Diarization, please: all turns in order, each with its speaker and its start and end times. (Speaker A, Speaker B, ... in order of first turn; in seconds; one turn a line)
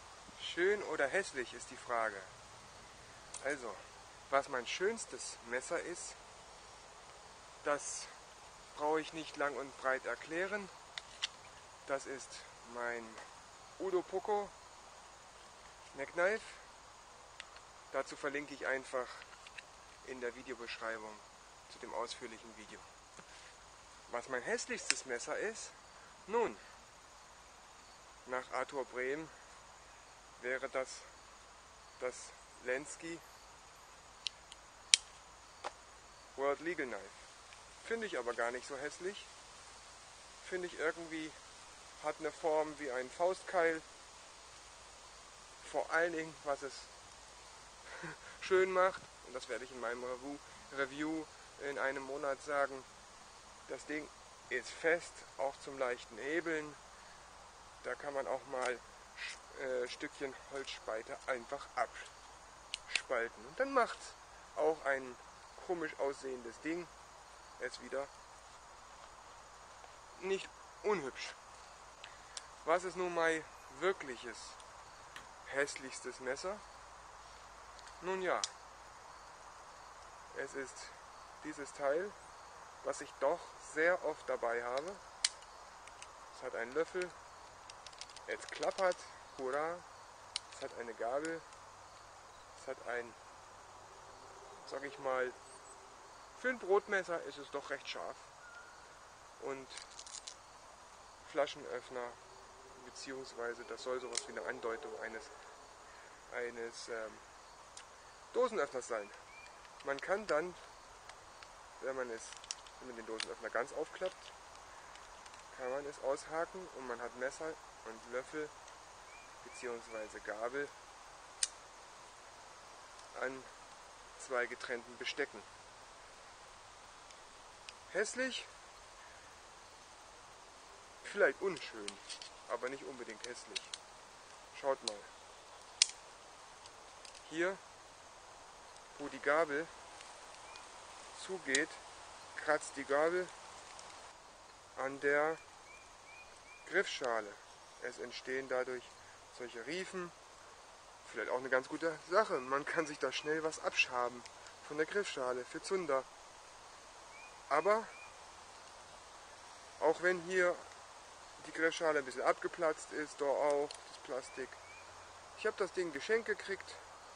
Speaker A: 0.3-2.3
Speaker A: 3.4-6.2
Speaker A: 7.6-8.2
Speaker A: 8.7-10.7
Speaker A: 11.9-13.2
Speaker A: 13.8-14.5
Speaker A: 15.9-16.7
Speaker A: 17.9-19.3
Speaker A: 20.0-22.9
Speaker A: 24.1-26.6
Speaker A: 28.2-29.3
Speaker A: 30.4-31.1
Speaker A: 32.0-33.2
Speaker A: 36.4-37.3
Speaker A: 37.8-39.3
Speaker A: 40.4-41.4
Speaker A: 42.0-43.9
Speaker A: 45.6-46.9
Speaker A: 48.0-52.9
Speaker A: 53.7-56.8
Speaker A: 57.8-62.1
Speaker A: 62.9-66.9
Speaker A: 67.6-68.1
Speaker A: 70.2-71.4
Speaker A: 72.6-74.6
Speaker A: 75.4-76.6
Speaker A: 78.0-78.5
Speaker A: 80.3-82.2
Speaker A: 82.8-85.0
Speaker A: 86.3-87.2
Speaker A: 88.3-89.9
Speaker A: 90.5-91.5
Speaker A: 92.5-93.2
Speaker A: 94.6-95.4
Speaker A: 96.4-98.3
Speaker A: 99.4-99.9
Speaker A: 101.2-102.2
Speaker A: 102.7-105.3
Speaker A: 106.3-107.3
Speaker A: 108.3-109.2
Speaker A: 109.8-110.7
Speaker A: 111.8-114.3
Speaker A: 115.5-118.5
Speaker A: 119.4-120.7
Speaker A: 123.1-123.5
Speaker A: 124.2-125.5
Speaker A: 127.9-128.5
Speaker A: 131.0-133.7
Speaker A: 134.5-135.1
Speaker A: 137.2-137.6
Speaker A: 138.9-139.7
Speaker A: 141.1-141.8
Speaker A: 142.3-143.3
Speaker A: 144.8-145.4
Speaker A: 146.6-150.2
Speaker A: 151.0-156.1
Speaker A: 157.5-157.9
Speaker A: 159.8-160.6
Speaker A: 161.4-164.6
Speaker A: 165.3-166.8